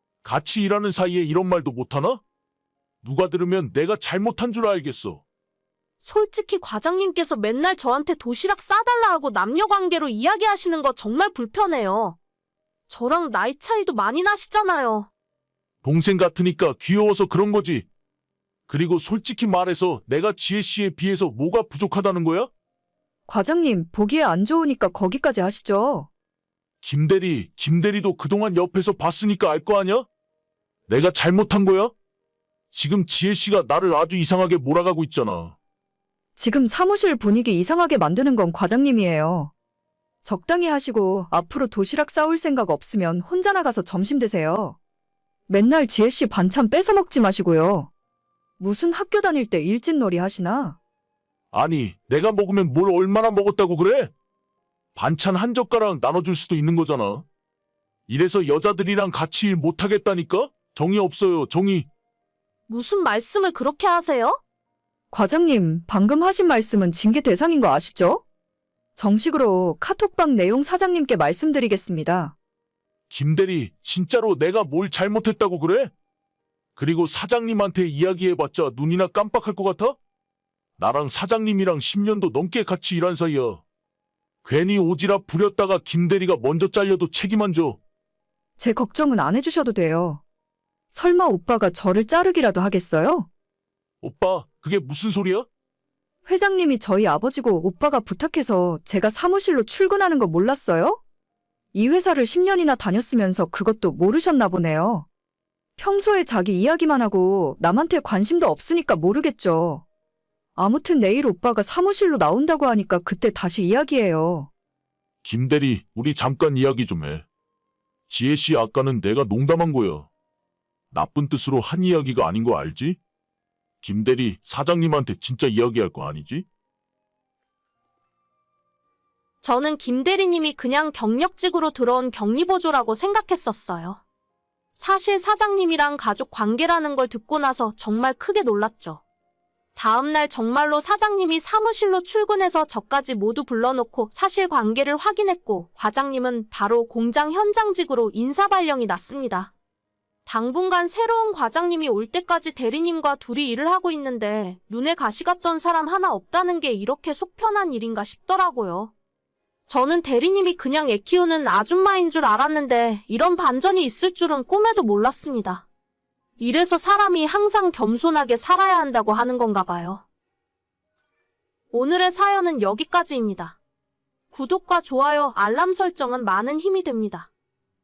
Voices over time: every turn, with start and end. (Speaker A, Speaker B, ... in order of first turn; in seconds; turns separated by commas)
Speaker A: 0.2-2.2, Speaker A: 3.0-5.2, Speaker B: 6.0-12.2, Speaker B: 12.9-15.1, Speaker A: 15.8-17.9, Speaker A: 18.7-22.5, Speaker C: 23.3-26.1, Speaker A: 26.8-30.1, Speaker A: 30.9-31.9, Speaker A: 32.7-35.6, Speaker C: 36.4-39.5, Speaker C: 40.2-44.8, Speaker C: 45.5-47.9, Speaker C: 48.6-50.8, Speaker A: 51.5-54.1, Speaker A: 55.0-57.2, Speaker A: 58.1-61.9, Speaker B: 62.7-64.4, Speaker C: 65.1-68.2, Speaker C: 69.0-72.4, Speaker A: 73.1-75.9, Speaker A: 76.8-80.0, Speaker A: 80.8-83.6, Speaker A: 84.4-87.8, Speaker C: 88.6-90.2, Speaker C: 90.9-93.3, Speaker A: 94.0-95.5, Speaker C: 96.2-101.0, Speaker C: 101.7-105.1, Speaker C: 105.8-109.8, Speaker C: 110.6-114.5, Speaker A: 115.2-117.2, Speaker A: 118.1-120.1, Speaker A: 120.9-123.0, Speaker A: 123.8-126.5, Speaker B: 129.4-134.0, Speaker B: 134.8-139.0, Speaker B: 139.8-149.5, Speaker B: 150.2-158.9, Speaker B: 159.7-165.7, Speaker B: 166.4-170.0, Speaker B: 171.7-173.6, Speaker B: 174.3-177.3